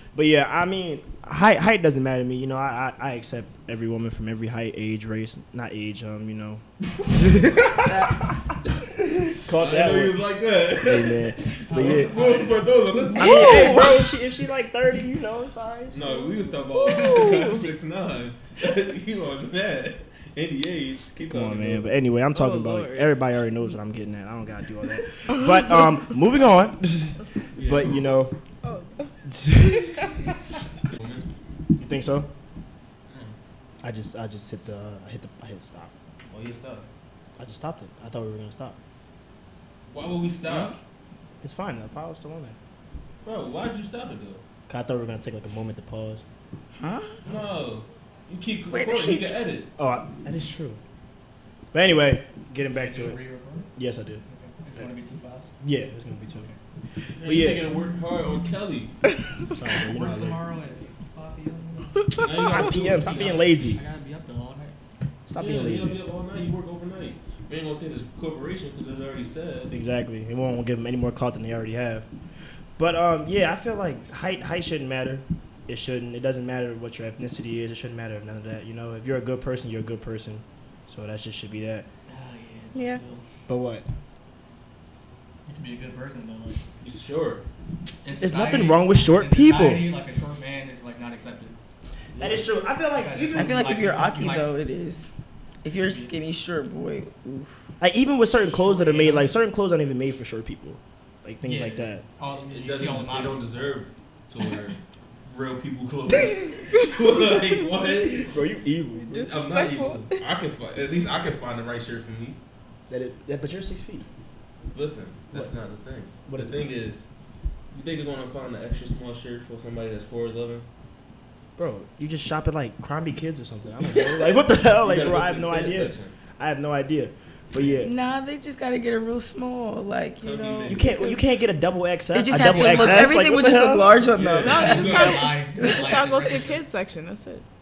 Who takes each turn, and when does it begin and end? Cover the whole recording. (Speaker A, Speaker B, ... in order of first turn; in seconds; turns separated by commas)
Speaker A: 0.1-8.3, Speaker A: 8.9-10.2, Speaker B: 9.5-14.0, Speaker A: 10.8-12.2, Speaker C: 11.7-12.7, Speaker D: 13.1-14.1, Speaker A: 13.1-16.4, Speaker B: 15.9-21.9, Speaker D: 16.7-17.7, Speaker A: 21.3-28.3, Speaker D: 22.3-23.1, Speaker B: 27.6-28.0, Speaker D: 28.6-29.1, Speaker A: 29.2-30.1, Speaker B: 30.9-31.3, Speaker A: 31.8-32.3, Speaker B: 33.1-33.3, Speaker A: 33.8-35.9, Speaker B: 36.2-36.8, Speaker A: 37.4-38.8, Speaker B: 39.9-40.8, Speaker E: 40.5-40.7, Speaker A: 41.4-42.5, Speaker B: 43.2-44.4, Speaker A: 44.7-46.2, Speaker E: 46.8-47.2, Speaker B: 47.2-49.7, Speaker E: 48.7-49.4, Speaker A: 49.8-50.8, Speaker A: 51.7-53.2, Speaker C: 52.7-53.7, Speaker A: 53.8-54.2, Speaker C: 54.3-55.5, Speaker A: 55.6-56.5, Speaker B: 57.2-58.9, Speaker A: 57.2-57.6, Speaker A: 59.5-60.4, Speaker C: 59.8-64.7, Speaker B: 62.2-63.4, Speaker A: 62.4-63.8, Speaker A: 65.3-66.0, Speaker B: 65.3-69.7, Speaker A: 69.7-72.1, Speaker A: 72.8-81.9, Speaker C: 82.1-83.2, Speaker D: 82.7-83.0, Speaker A: 83.5-83.8, Speaker C: 85.5-86.7, Speaker B: 86.8-87.4, Speaker C: 88.0-91.5, Speaker A: 88.2-89.9, Speaker B: 92.2-92.5, Speaker A: 92.2-93.7, Speaker C: 92.9-94.5, Speaker E: 93.3-95.0, Speaker E: 95.6-97.6, Speaker C: 95.7-96.1, Speaker A: 97.8-102.0, Speaker C: 98.6-99.3, Speaker C: 101.4-103.7, Speaker B: 102.3-108.3, Speaker A: 108.1-109.3, Speaker D: 109.0-110.3, Speaker B: 109.2-112.4, Speaker A: 112.9-114.1, Speaker B: 114.7-117.0, Speaker A: 116.2-116.7, Speaker B: 117.7-120.7, Speaker A: 121.6-127.9, Speaker B: 123.9-124.2, Speaker B: 124.8-126.1, Speaker B: 127.5-127.9, Speaker E: 127.8-131.2, Speaker B: 130.2-130.9, Speaker A: 130.7-133.9, Speaker E: 132.1-135.0, Speaker B: 132.4-133.1, Speaker B: 134.1-135.3, Speaker D: 134.4-137.4, Speaker C: 134.5-136.6, Speaker E: 135.6-136.0